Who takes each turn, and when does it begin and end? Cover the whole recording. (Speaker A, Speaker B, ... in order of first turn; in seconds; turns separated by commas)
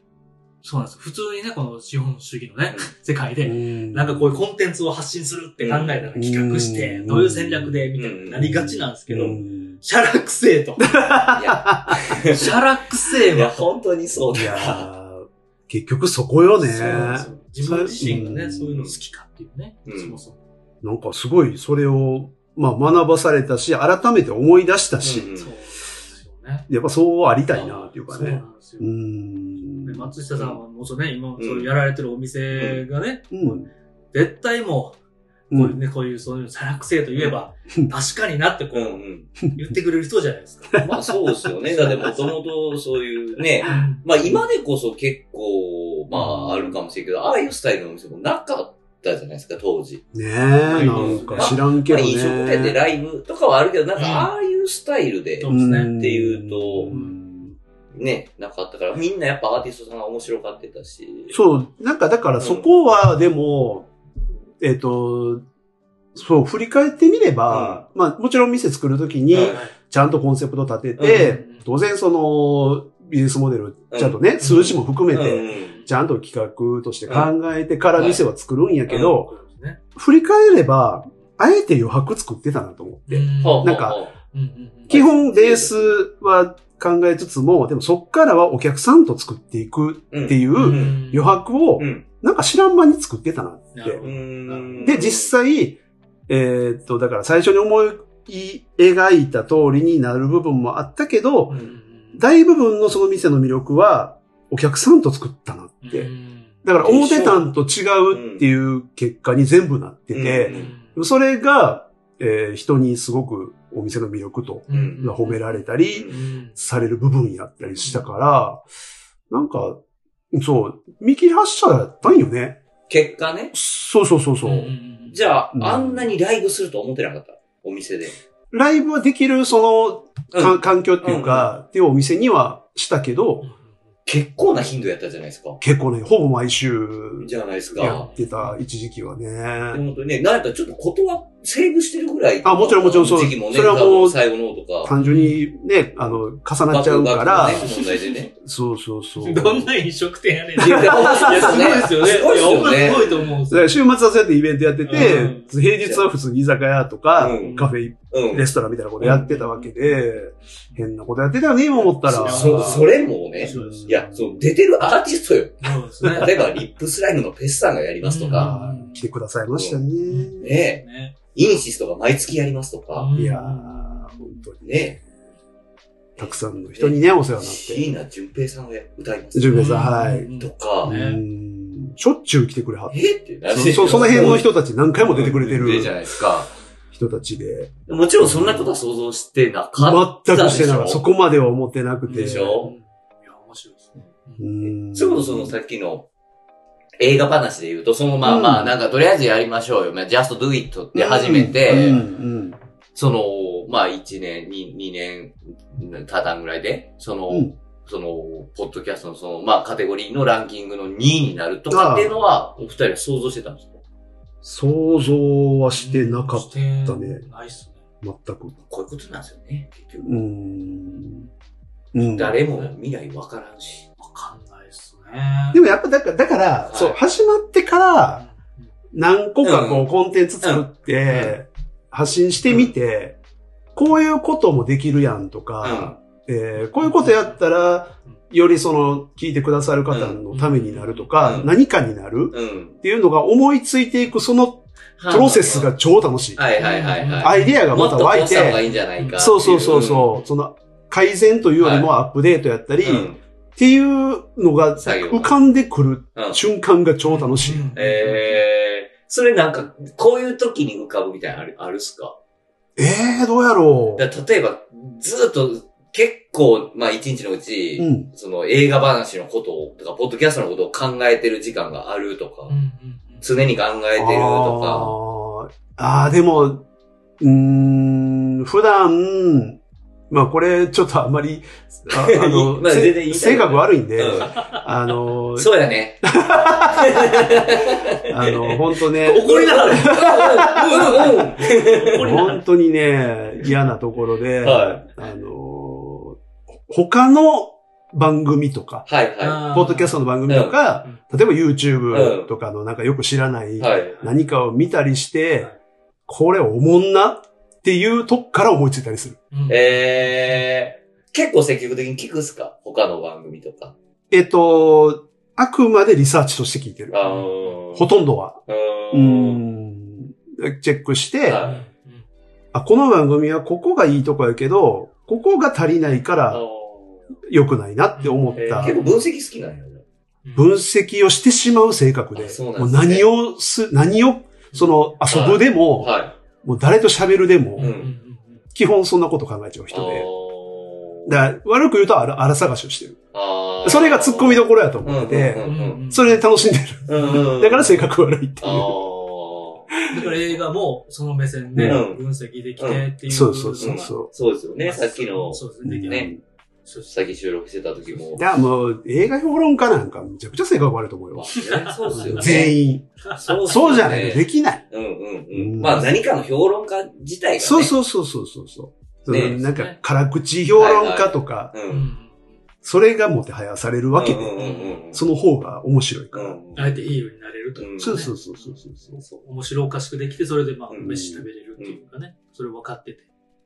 Speaker A: 0.6-11.2, Speaker B: 3.4-4.4, Speaker C: 5.6-6.1, Speaker B: 6.2-9.8, Speaker C: 8.0-8.4, Speaker B: 10.8-12.2, Speaker C: 11.3-12.6, Speaker A: 12.2-13.6, Speaker C: 13.3-14.9, Speaker B: 14.3-18.8, Speaker A: 16.6-20.4, Speaker C: 16.7-17.3, Speaker C: 18.0-19.0, Speaker C: 19.9-20.2, Speaker B: 20.8-25.3, Speaker C: 25.0-25.5, Speaker A: 25.4-26.7, Speaker B: 26.7-30.1, Speaker A: 27.5-28.9, Speaker A: 29.8-33.6, Speaker C: 31.4-31.7, Speaker C: 32.5-32.8, Speaker B: 33.3-33.7, Speaker A: 34.1-35.0, Speaker B: 35.5-35.8, Speaker A: 35.5-40.9, Speaker C: 38.7-39.3, Speaker B: 40.7-41.0, Speaker C: 40.8-50.0, Speaker A: 41.7-42.3, Speaker A: 43.6-44.0, Speaker B: 46.2-46.7, Speaker B: 50.1-52.8, Speaker A: 50.7-51.6, Speaker C: 50.7-56.9, Speaker A: 54.0-54.3, Speaker A: 55.4-55.9, Speaker B: 55.5-57.6, Speaker A: 56.9-57.2, Speaker C: 57.9-61.4, Speaker B: 61.3-63.9, Speaker C: 62.4-62.7, Speaker B: 64.6-65.4, Speaker B: 66.1-79.3, Speaker C: 67.5-67.8, Speaker C: 69.3-69.6, Speaker A: 69.4-69.7, Speaker C: 71.0-71.4, Speaker A: 71.1-71.7, Speaker C: 73.9-75.8, Speaker A: 74.4-74.8, Speaker A: 75.7-75.9, Speaker C: 77.1-77.3, Speaker C: 78.0-78.2, Speaker C: 78.9-79.2, Speaker A: 78.9-79.8, Speaker B: 79.9-84.0, Speaker A: 83.1-85.0, Speaker C: 83.4-84.1, Speaker C: 84.9-85.9, Speaker B: 84.9-94.0, Speaker C: 90.1-91.0, Speaker A: 90.5-91.4, Speaker C: 91.8-92.0, Speaker A: 93.7-95.0, Speaker C: 94.0-95.3, Speaker B: 94.8-101.5, Speaker A: 101.5-102.2, Speaker B: 102.1-106.1, Speaker A: 105.8-106.6, Speaker B: 106.6-118.6, Speaker C: 106.8-107.5, Speaker C: 108.1-108.4, Speaker C: 110.1-110.7, Speaker A: 110.5-111.0, Speaker A: 114.7-116.5, Speaker C: 114.7-115.1, Speaker C: 115.9-116.2, Speaker C: 117.6-117.9, Speaker B: 119.3-119.8, Speaker B: 120.3-122.6, Speaker C: 122.9-123.5, Speaker B: 123.5-124.7, Speaker A: 124.4-125.3, Speaker C: 125.1-128.2, Speaker B: 125.5-126.1, Speaker B: 128.5-133.5, Speaker C: 130.3-131.5, Speaker A: 133.4-133.8, Speaker C: 134.1-135.6, Speaker B: 135.6-139.8, Speaker C: 137.2-138.1, Speaker A: 137.8-138.6, Speaker C: 139.7-144.9, Speaker B: 142.4-144.2, Speaker B: 144.8-147.7, Speaker A: 145.0-145.4, Speaker C: 146.7-148.3, Speaker A: 147.4-148.2, Speaker B: 148.4-149.7, Speaker A: 149.2-153.8, Speaker C: 150.6-153.1, Speaker B: 150.6-152.0, Speaker B: 153.5-164.4, Speaker A: 154.8-155.5, Speaker C: 154.9-155.3, Speaker C: 155.8-156.1, Speaker C: 157.2-157.6, Speaker A: 157.3-157.8, Speaker C: 158.1-158.5, Speaker C: 159.0-159.3, Speaker A: 159.0-160.0, Speaker A: 161.7-164.1, Speaker C: 162.2-168.6, Speaker A: 165.6-166.4, Speaker A: 168.0-169.1, Speaker B: 168.3-170.5, Speaker C: 169.5-169.8, Speaker A: 170.1-171.1, Speaker C: 170.4-173.1, Speaker A: 172.9-174.4, Speaker B: 173.1-175.0, Speaker C: 174.6-175.0, Speaker C: 176.2-180.9, Speaker B: 176.2-177.8, Speaker B: 179.3-180.3, Speaker A: 179.5-181.2, Speaker B: 180.8-186.1, Speaker C: 182.9-184.5, Speaker A: 183.8-184.4, Speaker C: 185.0-186.5, Speaker B: 186.9-188.7, Speaker C: 187.9-191.0, Speaker B: 189.8-192.7, Speaker A: 192.1-194.5, Speaker C: 192.1-192.7, Speaker B: 194.4-195.5, Speaker C: 194.9-196.1, Speaker C: 197.0-202.0, Speaker B: 198.2-198.7, Speaker B: 200.9-202.6, Speaker A: 201.7-202.2, Speaker C: 202.9-213.8, Speaker B: 211.7-212.1, Speaker B: 214.4-217.2, Speaker A: 215.7-217.8, Speaker B: 218.0-218.6, Speaker C: 218.7-220.1, Speaker B: 220.0-221.2, Speaker B: 221.9-222.4, Speaker C: 222.0-223.9, Speaker A: 224.0-225.6, Speaker B: 225.5-228.2, Speaker C: 226.7-227.0, Speaker A: 228.2-228.7, Speaker B: 228.9-233.2, Speaker C: 229.4-229.9, Speaker C: 230.4-231.3, Speaker B: 233.7-248.6, Speaker C: 235.6-236.0, Speaker A: 236.6-237.4, Speaker C: 239.9-240.2, Speaker A: 240.3-241.2, Speaker C: 241.2-241.5, Speaker C: 242.3-242.8, Speaker C: 245.0-245.7, Speaker C: 246.3-250.1, Speaker A: 246.6-247.6, Speaker A: 249.0-249.2, Speaker B: 249.1-257.7, Speaker C: 251.6-251.9, Speaker C: 252.8-253.2, Speaker C: 254.8-255.3, Speaker C: 256.1-256.4, Speaker A: 257.0-258.4, Speaker C: 257.7-262.1, Speaker B: 262.8-264.1, Speaker C: 264.0-272.5, Speaker B: 267.8-268.1, Speaker A: 272.5-273.2, Speaker C: 273.2-274.9, Speaker B: 273.9-276.6, Speaker B: 277.2-279.6, Speaker B: 280.1-285.5, Speaker C: 281.9-284.6, Speaker A: 284.3-284.6, Speaker C: 285.3-286.1, Speaker B: 286.0-291.1, Speaker C: 286.6-292.1, Speaker A: 289.0-292.4, Speaker B: 291.9-298.9, Speaker C: 294.4-294.8, Speaker C: 298.9-299.5, Speaker A: 299.2-300.0, Speaker B: 299.5-305.5, Speaker C: 300.3-300.6, Speaker C: 301.9-302.3, Speaker C: 303.6-303.9, Speaker B: 306.1-309.2, Speaker A: 309.3-310.4, Speaker C: 309.5-313.7, Speaker B: 314.1-317.0, Speaker C: 316.9-317.9, Speaker A: 317.0-317.6, Speaker B: 317.7-318.4, Speaker C: 318.5-319.4, Speaker B: 318.9-321.4, Speaker C: 321.2-321.6, Speaker A: 321.4-322.0, Speaker B: 322.5-326.4, Speaker C: 326.3-327.1, Speaker B: 327.3-328.8, Speaker A: 328.0-329.1, Speaker C: 328.4-329.8, Speaker A: 330.2-330.5, Speaker B: 330.4-337.8, Speaker C: 332.1-333.1, Speaker C: 335.1-336.1, Speaker A: 337.6-338.4, Speaker C: 337.6-337.9, Speaker B: 338.5-340.1, Speaker C: 339.7-341.2, Speaker B: 341.1-343.0, Speaker C: 343.1-345.8, Speaker B: 343.6-348.8, Speaker A: 345.4-346.2, Speaker C: 346.9-347.9, Speaker C: 348.4-349.7, Speaker A: 349.9-353.9, Speaker B: 351.5-351.8, Speaker C: 351.6-352.0, Speaker C: 352.6-352.8, Speaker B: 353.1-354.1, Speaker C: 353.6-356.1, Speaker A: 354.6-356.1, Speaker B: 355.6-356.2, Speaker A: 356.6-356.9, Speaker C: 356.9-358.2, Speaker B: 358.2-362.9, Speaker C: 361.1-362.6, Speaker A: 361.3-362.5, Speaker A: 363.0-364.0, Speaker C: 363.2-367.7, Speaker B: 363.4-364.6, Speaker B: 365.3-366.0, Speaker B: 367.4-371.5, Speaker C: 369.1-369.4, Speaker A: 369.1-369.8, Speaker C: 370.5-371.9, Speaker A: 371.7-372.3, Speaker B: 372.6-374.4, Speaker C: 373.9-375.0, Speaker A: 374.4-374.8, Speaker B: 374.9-376.4, Speaker C: 376.1-376.9, Speaker A: 376.5-378.6, Speaker C: 377.6-378.1, Speaker B: 377.8-379.0, Speaker A: 379.2-383.1, Speaker C: 380.7-380.9, Speaker B: 380.8-381.2